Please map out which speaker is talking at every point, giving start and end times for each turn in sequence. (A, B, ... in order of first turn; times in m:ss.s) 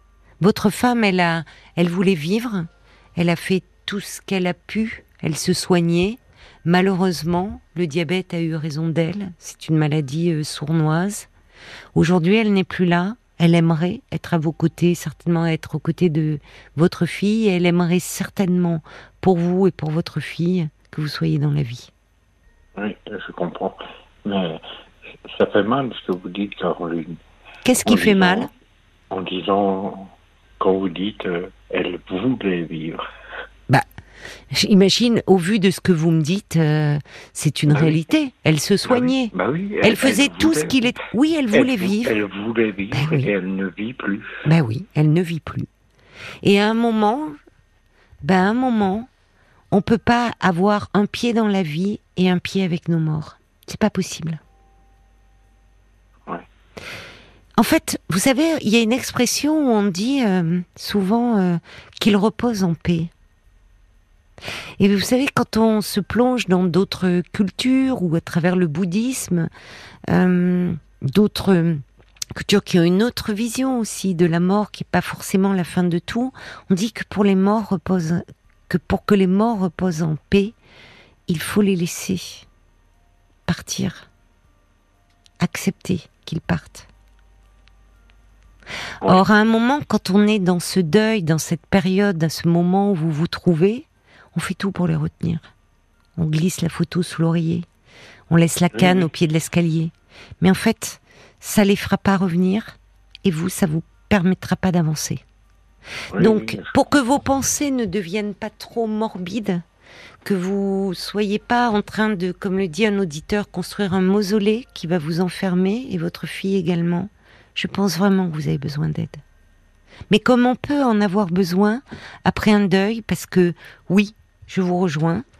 0:00.4-0:11.3 A
0:11.9-0:21.9 A
0:22.8-0:24.6 B
0:25.3-0:27.2 B
0:27.6-0:28.5 A
0:27.8-0:28.5 B
0:29.1-0:33.1 B
0:34.5-0:42.1 A
0:37.7-0:38.0 B
0:38.8-0:40.8 B
0:41.5-0:44.4 B
0:42.9-0:43.3 A
0:44.4-0:45.7 A
0:46.4-0:47.4 A
0:48.2-0:49.1 A
0:49.7-0:54.4 A
0:57.6-1:03.1 A
1:04.8-1:09.5 A
1:10.1-1:11.8 A
1:12.3-1:20.5 A
1:21.3-1:22.4 A
1:23.5-1:24.1 A
1:25.4-1:26.9 A
1:29.0-1:35.4 A
1:36.2-1:37.6 A
1:38.3-1:45.2 A
1:38.7-1:39.1 B
1:46.1-1:46.8 B
1:46.2-1:49.6 A
1:50.2-1:59.2 A
2:00.1-2:05.2 A